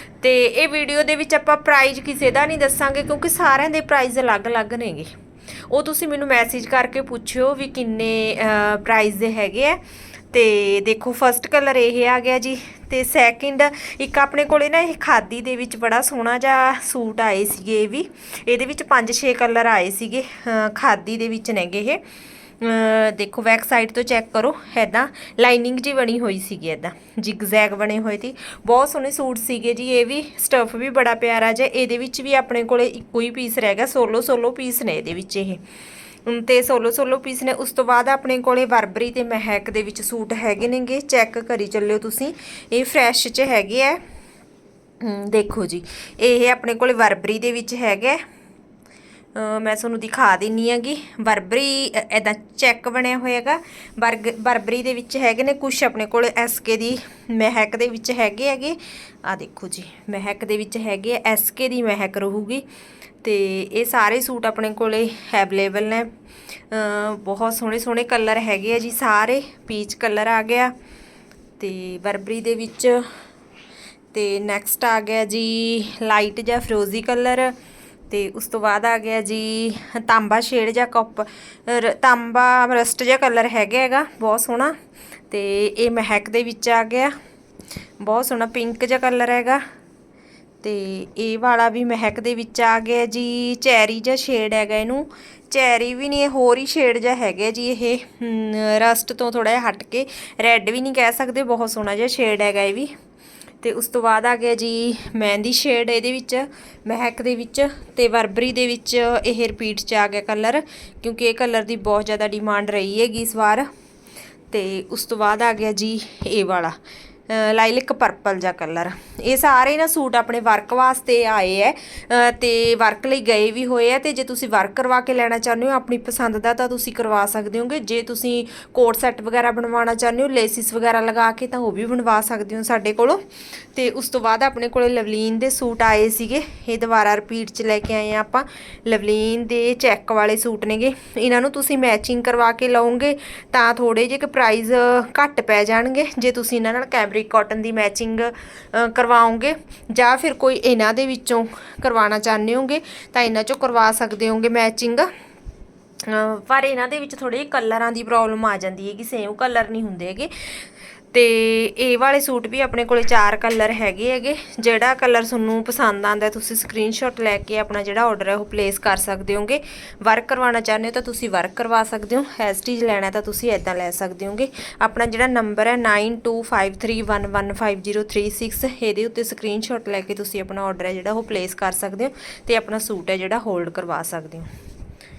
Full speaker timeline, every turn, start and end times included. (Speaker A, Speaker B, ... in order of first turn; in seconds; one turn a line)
Speaker A: 0.2-5.1
Speaker A: 5.7-9.8
Speaker A: 10.3-22.0
Speaker A: 22.6-35.6
Speaker A: 36.3-44.0
Speaker A: 45.0-48.2
Speaker A: 49.4-62.6
Speaker A: 63.2-66.1
Speaker A: 66.7-70.7
Speaker A: 71.6-73.0
Speaker A: 74.1-77.5
Speaker A: 78.1-84.8
Speaker A: 85.3-87.1
Speaker A: 88.0-89.6
Speaker A: 90.6-102.9
Speaker A: 103.6-113.7
Speaker A: 114.5-116.8
Speaker A: 117.3-133.2
Speaker A: 133.7-155.1
Speaker A: 156.0-160.3
Speaker A: 161.1-184.5